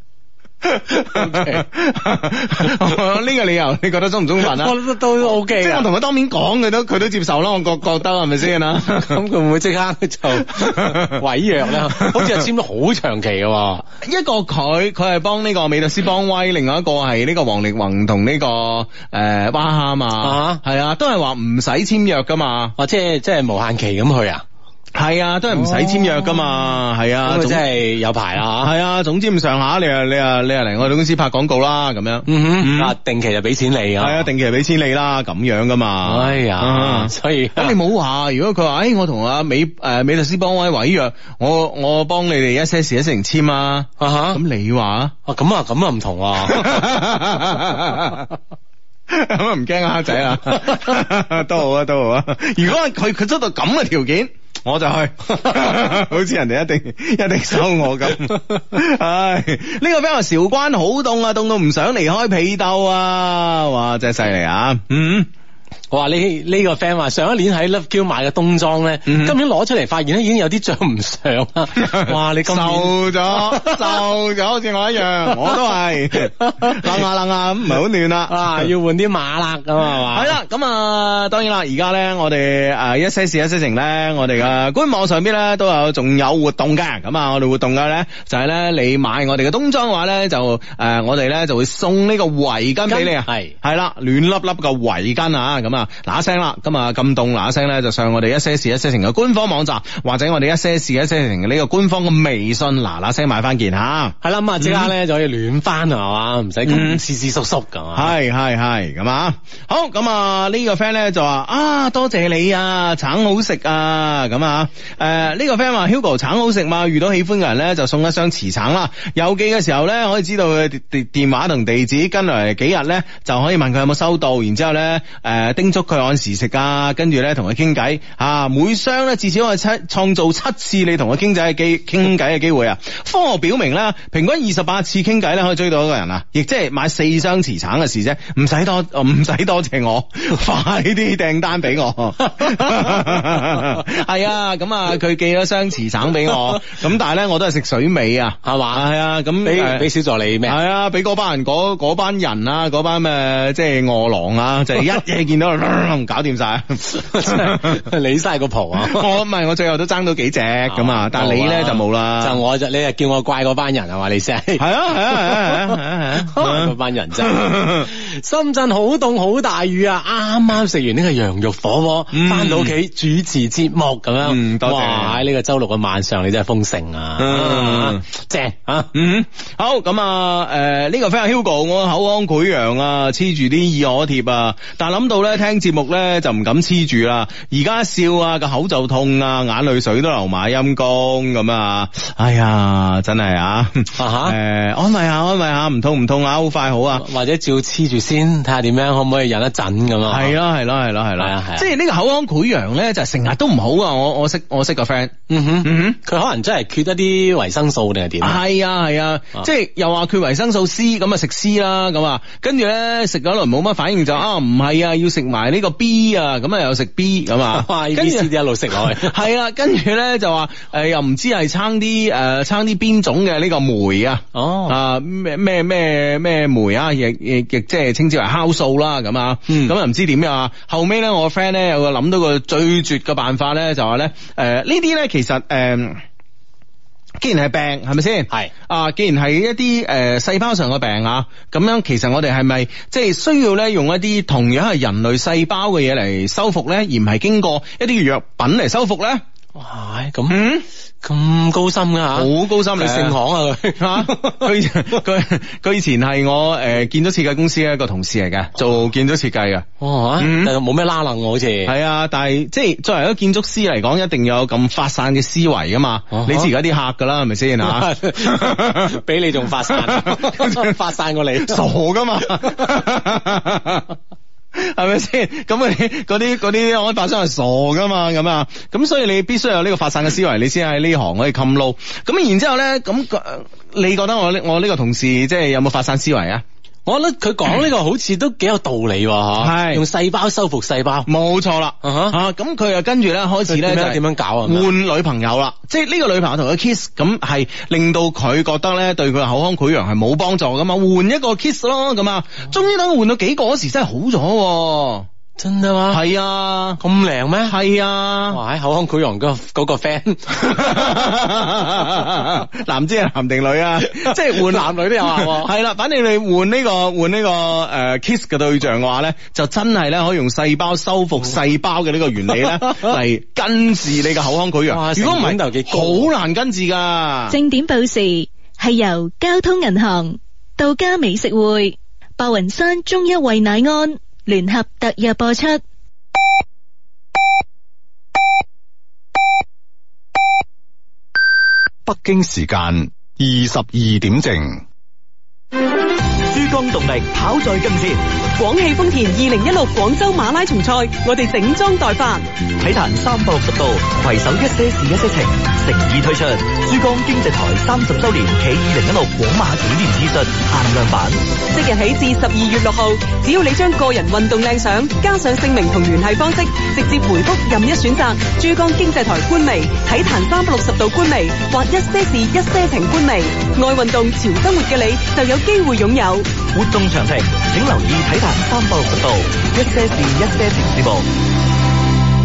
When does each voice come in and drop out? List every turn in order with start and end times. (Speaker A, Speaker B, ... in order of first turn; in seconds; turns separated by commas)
Speaker A: 0.6-4.8, Speaker B: 1.0-1.6, Speaker B: 4.4-5.9, Speaker A: 5.4-9.2, Speaker B: 8.8-13.8, Speaker A: 10.3-12.4, Speaker A: 14.0-22.7, Speaker B: 20.2-20.6, Speaker B: 22.8-24.4, Speaker A: 24.9-27.6, Speaker B: 25.5-26.4, Speaker B: 27.2-28.7, Speaker A: 28.6-32.9, Speaker B: 32.3-34.3, Speaker A: 34.0-45.1, Speaker B: 36.0-37.7, Speaker B: 44.0-44.4, Speaker B: 45.2-46.8, Speaker A: 46.4-48.3, Speaker A: 49.1-65.3, Speaker B: 65.9-74.1, Speaker A: 69.0-69.4, Speaker A: 71.8-78.7, Speaker B: 75.3-75.6, Speaker B: 76.4-77.0, Speaker B: 78.3-80.4, Speaker A: 80.0-104.9, Speaker B: 92.9-93.5, Speaker B: 104.2-108.1, Speaker A: 106.6-107.0, Speaker A: 107.9-149.9, Speaker B: 142.3-143.0, Speaker B: 148.4-148.8, Speaker B: 149.4-150.6, Speaker A: 150.4-157.8, Speaker B: 156.9-159.1, Speaker A: 158.8-162.4, Speaker B: 160.7-178.9, Speaker A: 164.6-167.9, Speaker A: 172.1-172.7, Speaker A: 174.2-175.2, Speaker A: 177.2-178.0, Speaker A: 178.9-197.1, Speaker B: 194.0-194.3, Speaker B: 196.9-200.3, Speaker A: 200.0-206.0, Speaker B: 201.2-201.7, Speaker B: 205.3-208.4, Speaker A: 208.2-236.0, Speaker B: 217.5-219.2, Speaker B: 224.3-224.8, Speaker B: 229.5-229.7, Speaker A: 237.2-249.2, Speaker B: 249.5-250.4, Speaker A: 250.3-250.6, Speaker B: 251.0-254.5, Speaker A: 252.1-253.2, Speaker A: 253.8-260.5, Speaker B: 259.8-261.7, Speaker A: 261.6-270.7, Speaker B: 266.1-266.5, Speaker B: 267.6-271.6, Speaker A: 271.4-273.9, Speaker B: 272.3-272.6, Speaker A: 274.5-286.4, Speaker B: 286.9-291.1, Speaker A: 289.4-289.8, Speaker A: 291.1-305.1, Speaker B: 291.8-292.2, Speaker B: 293.5-294.7, Speaker B: 305.4-306.0, Speaker A: 305.9-306.8, Speaker B: 306.8-307.6, Speaker A: 307.4-308.4, Speaker B: 308.3-310.8, Speaker A: 310.3-327.4, Speaker B: 313.9-315.5, Speaker B: 324.7-326.1, Speaker C: 327.3-335.6, Speaker D: 341.9-344.6, Speaker E: 346.3-348.0, Speaker F: 348.4-352.2, Speaker E: 352.6-361.2, Speaker F: 361.5-376.3, Speaker E: 376.5-381.1